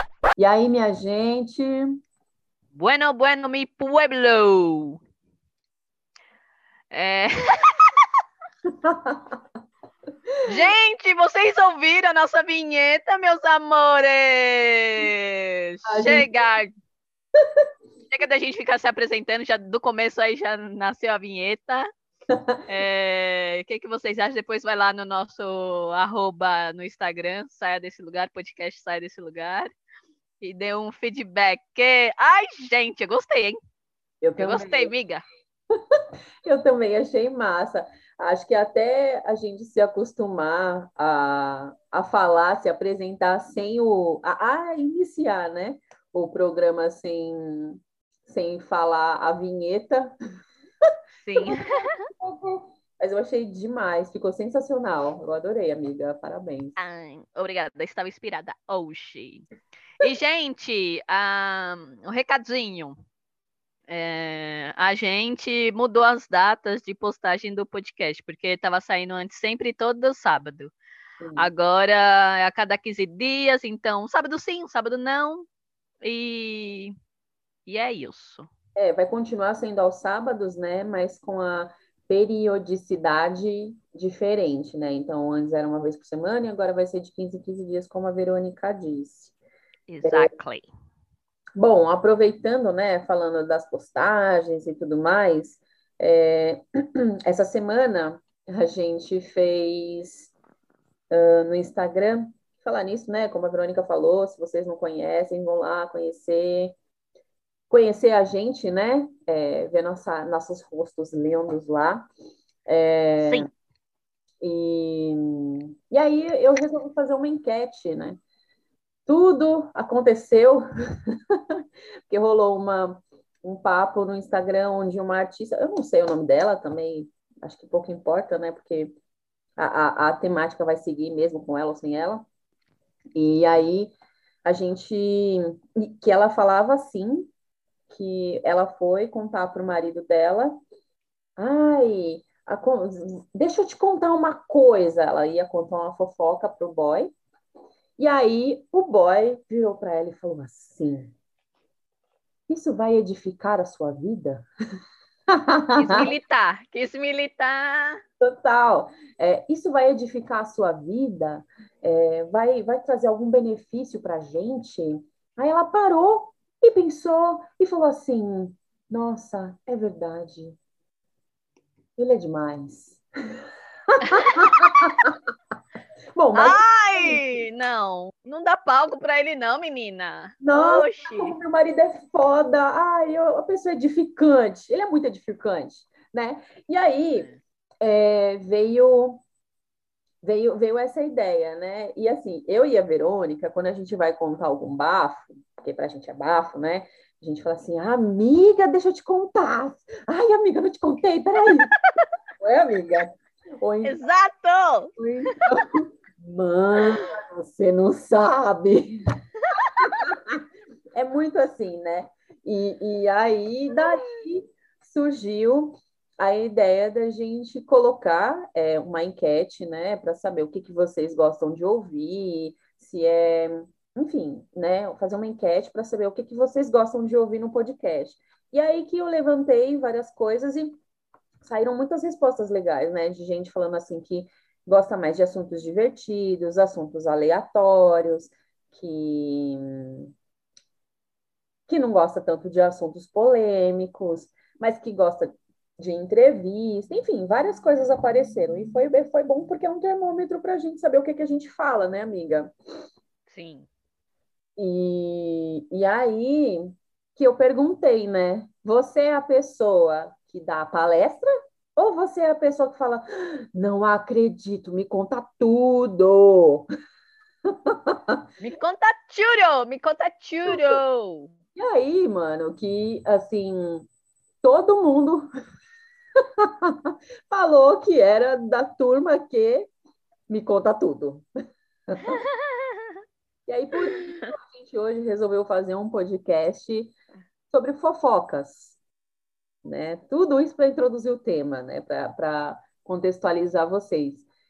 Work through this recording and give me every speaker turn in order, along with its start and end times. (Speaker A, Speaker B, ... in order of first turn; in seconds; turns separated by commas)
Speaker A: 0.4-1.9, Speaker B: 2.7-5.0, Speaker B: 6.9-7.8, Speaker A: 8.7-9.4, Speaker B: 10.4-16.7, Speaker A: 15.8-16.3, Speaker A: 17.4-17.6, Speaker B: 18.1-21.9, Speaker A: 22.3-22.6, Speaker B: 22.6-29.7, Speaker B: 30.4-33.6, Speaker A: 34.2-34.9, Speaker B: 34.4-35.2, Speaker A: 35.9-50.1, Speaker A: 50.9-56.8, Speaker B: 51.2-52.1, Speaker B: 56.8-59.5, Speaker B: 60.0-63.0, Speaker B: 63.9-70.7, Speaker A: 71.2-71.5, Speaker B: 71.4-75.5, Speaker B: 76.0-76.9, Speaker B: 77.7-78.5, Speaker A: 78.8-89.3, Speaker B: 89.9-90.7, Speaker A: 90.0-90.3, Speaker A: 91.5-100.3, Speaker A: 101.1-106.8, Speaker A: 107.7-112.0, Speaker A: 112.7-113.5, Speaker A: 114.4-118.2, Speaker A: 119.1-120.6, Speaker A: 121.1-128.9, Speaker A: 129.6-132.2, Speaker A: 133.1-133.9, Speaker A: 134.4-137.3, Speaker A: 137.9-140.6, Speaker A: 141.4-147.1, Speaker A: 148.0-151.1, Speaker A: 152.5-154.4, Speaker A: 155.3-156.1, Speaker B: 155.7-158.0, Speaker A: 158.2-170.6, Speaker A: 172.0-175.2, Speaker B: 174.1-174.6, Speaker A: 176.1-177.4, Speaker B: 176.3-181.3, Speaker A: 180.4-187.3, Speaker A: 187.8-189.2, Speaker A: 190.2-201.7, Speaker B: 201.8-202.1, Speaker A: 202.4-204.0, Speaker B: 203.8-204.9, Speaker A: 205.0-209.0, Speaker B: 209.5-209.8, Speaker A: 209.8-210.4, Speaker A: 210.9-230.8, Speaker A: 231.4-240.1, Speaker A: 241.7-252.5, Speaker B: 253.3-253.7, Speaker A: 254.6-266.7, Speaker A: 267.5-268.2, Speaker B: 268.4-271.3, Speaker A: 270.5-270.8, Speaker A: 271.6-273.9, Speaker A: 274.4-275.3, Speaker A: 276.2-279.7, Speaker A: 280.3-281.2, Speaker A: 281.9-282.2, Speaker A: 283.5-286.9, Speaker A: 287.5-288.8, Speaker A: 289.6-294.3